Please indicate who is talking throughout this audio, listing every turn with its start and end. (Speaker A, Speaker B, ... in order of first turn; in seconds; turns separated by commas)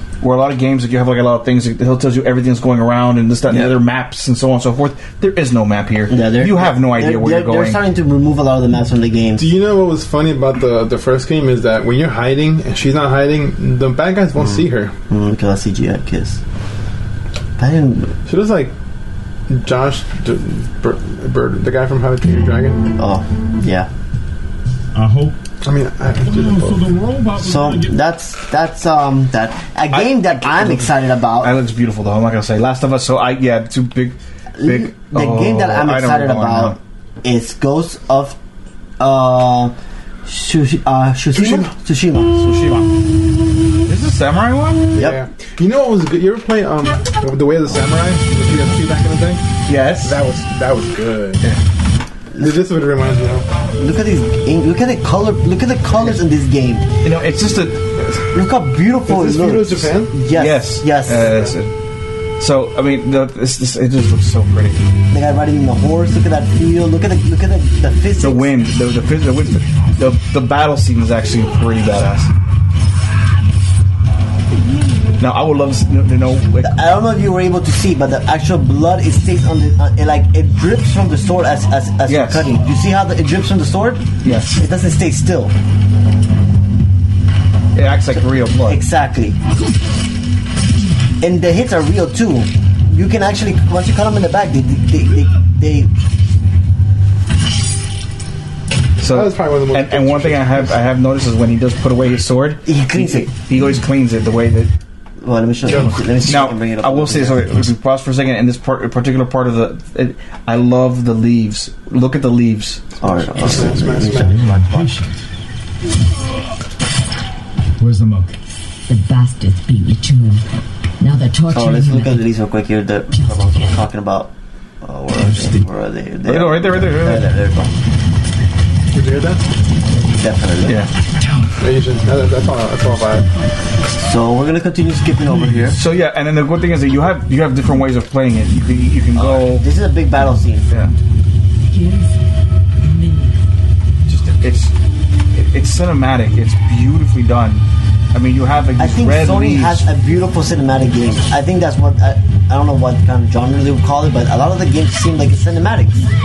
Speaker A: 0.2-7.8, Speaker B: 3.5-3.8, Speaker B: 6.1-9.5, Speaker C: 9.4-14.9, Speaker B: 14.4-16.4, Speaker B: 17.6-18.1, Speaker C: 18.3-18.7, Speaker C: 19.5-22.9, Speaker B: 23.0-23.9, Speaker D: 24.9-25.4, Speaker C: 25.6-26.9, Speaker D: 26.2-28.0, Speaker B: 27.4-31.5, Speaker A: 29.9-36.8, Speaker B: 34.6-38.4, Speaker B: 39.0-39.7, Speaker B: 40.3-42.3, Speaker C: 41.3-41.7, Speaker A: 42.4-42.9, Speaker A: 43.9-44.9, Speaker C: 44.9-49.5, Speaker B: 45.0-45.2, Speaker A: 49.7-50.2, Speaker C: 50.0-51.4, Speaker B: 52.3-52.6, Speaker C: 52.4-53.5, Speaker B: 53.8-56.9, Speaker A: 57.0-57.8, Speaker B: 58.3-61.5, Speaker C: 59.1-60.2, Speaker A: 60.3-61.7, Speaker C: 61.1-61.5, Speaker A: 62.4-64.8, Speaker B: 65.1-68.7, Speaker A: 68.2-72.3, Speaker A: 75.2-76.8, Speaker B: 76.6-85.5, Speaker A: 82.1-82.5, Speaker A: 84.2-84.6, Speaker A: 87.8-88.8, Speaker B: 88.2-89.4, Speaker B: 91.2-95.9, Speaker A: 99.0-104.7, Speaker C: 99.0-100.8, Speaker B: 102.7-103.3, Speaker B: 105.2-107.7, Speaker C: 105.7-106.0, Speaker A: 106.2-112.9, Speaker B: 113.0-115.0, Speaker C: 113.0-114.4, Speaker D: 114.3-114.9, Speaker D: 117.8-118.3, Speaker E: 118.9-120.4, Speaker E: 121.0-122.3, Speaker B: 121.5-124.3, Speaker E: 123.2-123.7, Speaker B: 124.8-127.7, Speaker A: 126.3-127.3, Speaker C: 128.9-129.4, Speaker B: 130.2-130.8, Speaker A: 130.7-130.9, Speaker C: 131.6-133.3, Speaker B: 134.0-135.8, Speaker A: 135.8-139.7, Speaker B: 139.2-140.7, Speaker E: 141.7-142.1, Speaker E: 142.8-143.3, Speaker A: 144.1-144.7, Speaker A: 145.3-149.9, Speaker B: 148.8-156.1